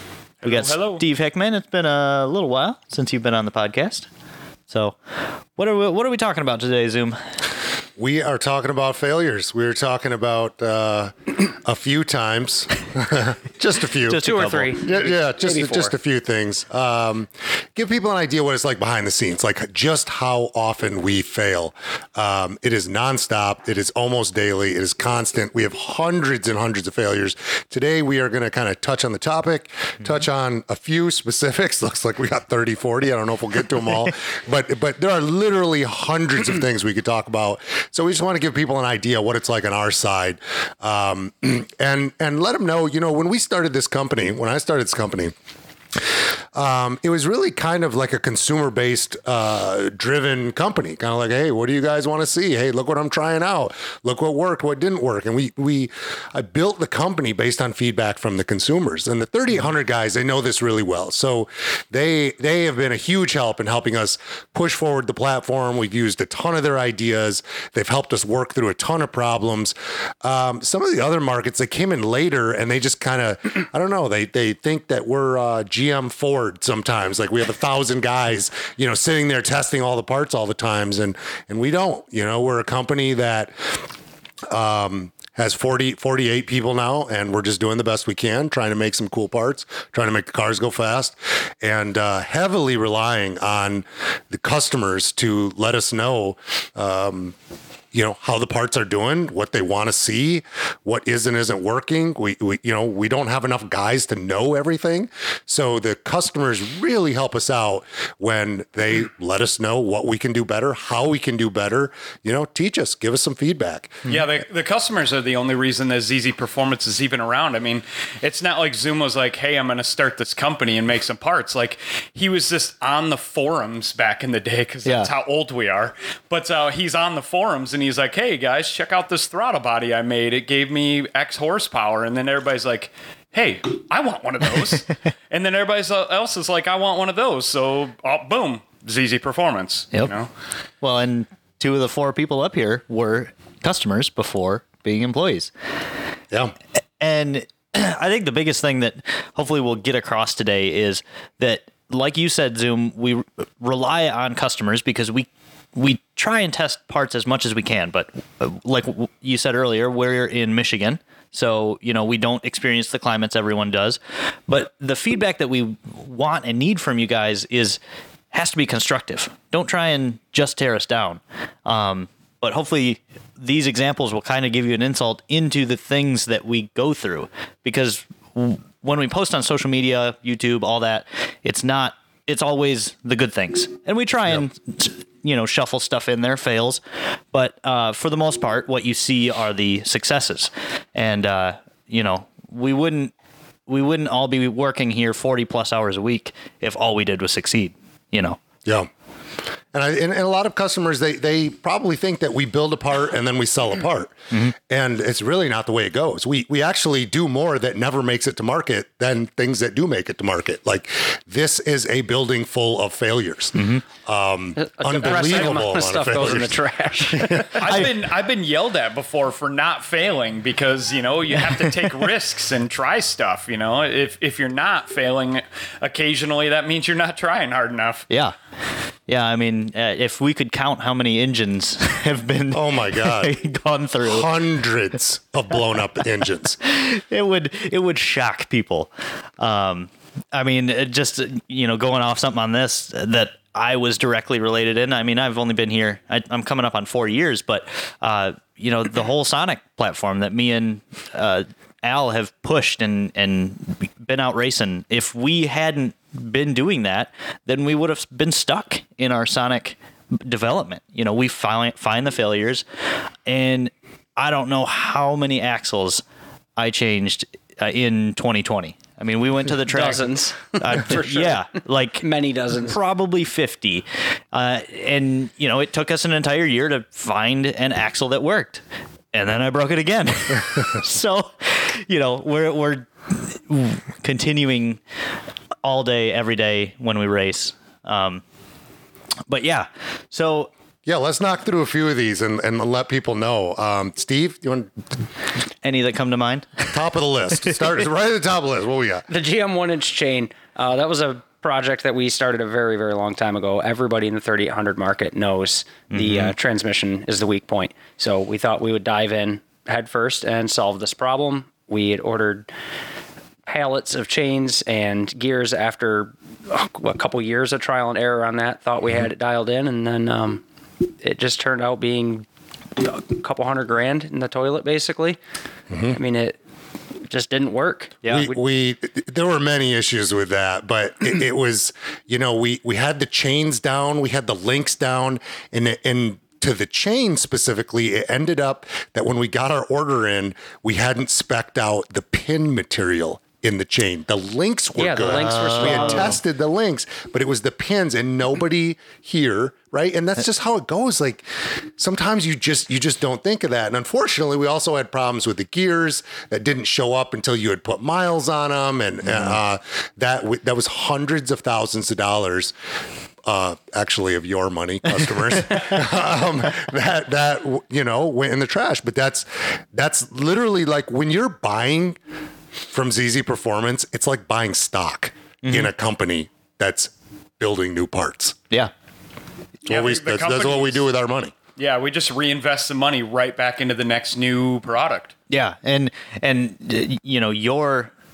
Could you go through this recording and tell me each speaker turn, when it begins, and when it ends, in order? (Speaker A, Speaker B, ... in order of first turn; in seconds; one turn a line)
Speaker A: 0.4-1.0
Speaker B: 0.4-4.1
Speaker B: 4.7-5.0
Speaker B: 5.5-7.2
Speaker C: 8.0-45.3
Speaker B: 14.1-14.7
Speaker D: 14.1-15.9
Speaker C: 46.5-83.8
Speaker C: 84.5-97.3
Speaker C: 97.9-114.2
Speaker A: 114.0-140.3
Speaker B: 140.8-145.5
Speaker B: 147.0-167.8
Speaker B: 168.3-193.1
Speaker B: 193.7-198.4
Speaker C: 199.7-217.8
Speaker B: 213.6-213.8
Speaker D: 214.6-217.6
Speaker A: 215.0-215.6
Speaker A: 217.5-228.1
Speaker B: 228.1-228.3
Speaker B: 229.1-234.3
Speaker C: 232.5-233.3
Speaker C: 234.0-236.6
Speaker B: 236.6-262.6
Speaker B: 263.2-266.0
Speaker B: 266.6-272.0
Speaker D: 269.6-272.7
Speaker B: 272.6-284.8
Speaker B: 285.6-288.2
Speaker B: 289.3-290.5
Speaker C: 290.8-294.8
Speaker B: 295.6-296.8
Speaker C: 296.7-299.1
Speaker B: 297.4-297.7
Speaker D: 299.1-312.5
Speaker B: 305.9-306.3
Speaker D: 313.4-320.4
Speaker D: 321.0-322.2
Speaker D: 322.8-325.2
Speaker C: 325.7-326.0
Speaker D: 325.9-326.4
Speaker D: 327.0-328.4
Speaker C: 328.1-362.5
Speaker D: 344.8-346.2
Speaker B: 345.1-346.2
Speaker B: 359.1-359.3
Speaker C: 363.2-372.0
Speaker C: 372.7-378.4
Speaker B: 375.4-375.7
Speaker A: 379.6-380.8
Speaker C: 379.6-381.3
Speaker A: 381.6-385.1
Speaker B: 385.3-387.9